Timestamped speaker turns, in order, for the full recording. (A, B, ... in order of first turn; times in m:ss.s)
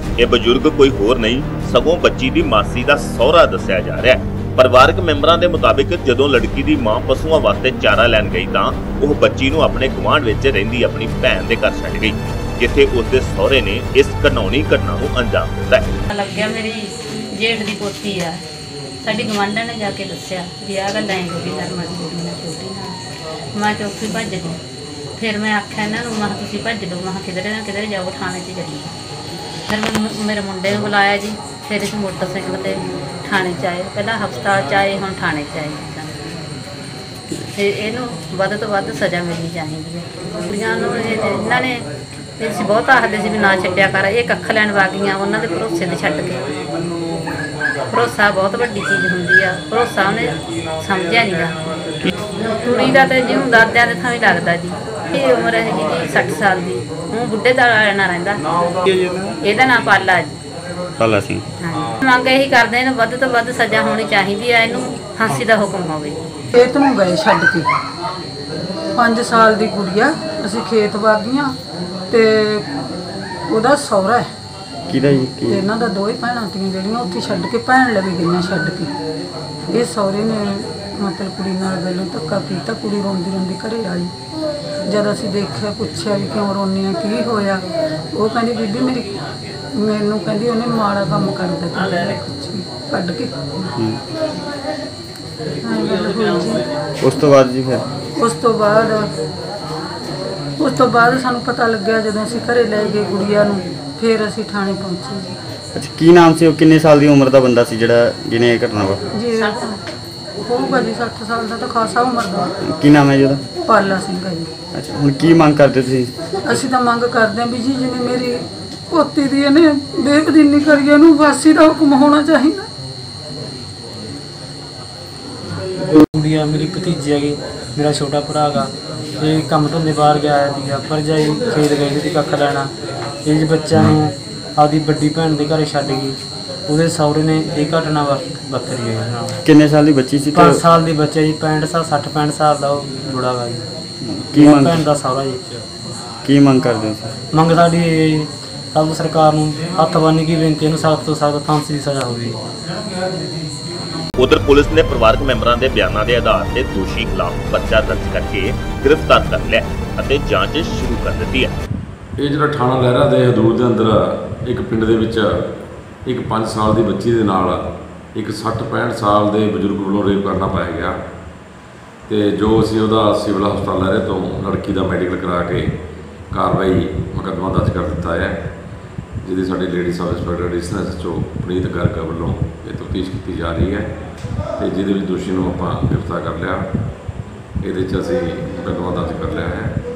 0:00.2-0:15.8 A
0:16.1-0:18.4 B
0:19.0-0:23.0 B
0:23.5-0:24.6 B
0:25.2-0:28.9 B
0:29.7-0:36.2 B
0:37.5-0:41.8 B
0:42.4-0:46.4 B
0:47.9-0:51.5 B
0:52.6-0:58.4 B
0:59.4-1:00.3 B
1:01.0-1:01.4 C
1:01.6-1:06.2 B
1:06.5-1:07.7 D
1:09.0-1:11.5 D
1:12.1-1:12.6 D
1:13.5-1:14.3 D
1:14.9-1:15.6 C
1:15.5-1:18.9 D
1:19.7-1:24.1 D
1:24.9-1:27.6 D
1:28.1-1:29.1 D
1:29.7-1:33.5 D
1:35.6-1:36.6 D
1:37.0-1:37.8 C
1:38.2-1:39.1 D
1:40.6-1:45.4 D
1:45.7-1:49.0 C
1:49.1-1:49.8 D
1:50.4-1:52.6 D
1:52.6-1:53.4 C
1:53.7-1:54.5 D
1:54.7-1:56.1 C
1:56.4-2:02.7 D
2:05.9-2:08.7 E
2:09.2-2:12.7 E
2:13.2-2:16.2 E
2:16.7-2:19.4 E
2:19.4-2:20.6 C
2:20.3-2:23.6 E
2:24.0-2:24.9 C
2:24.4-2:25.5 E
2:26.2-2:27.1 C
2:27.3-2:32.4 E
2:34.2-2:41.6 A
2:42.2-2:45.5 F
2:46.0-2:51.0 F
2:52.1-2:55.7 F
2:56.3-2:58.4 F
2:59.2-3:03.9 F
3:04.6-3:06.6 F
3:07.6-3:09.8 F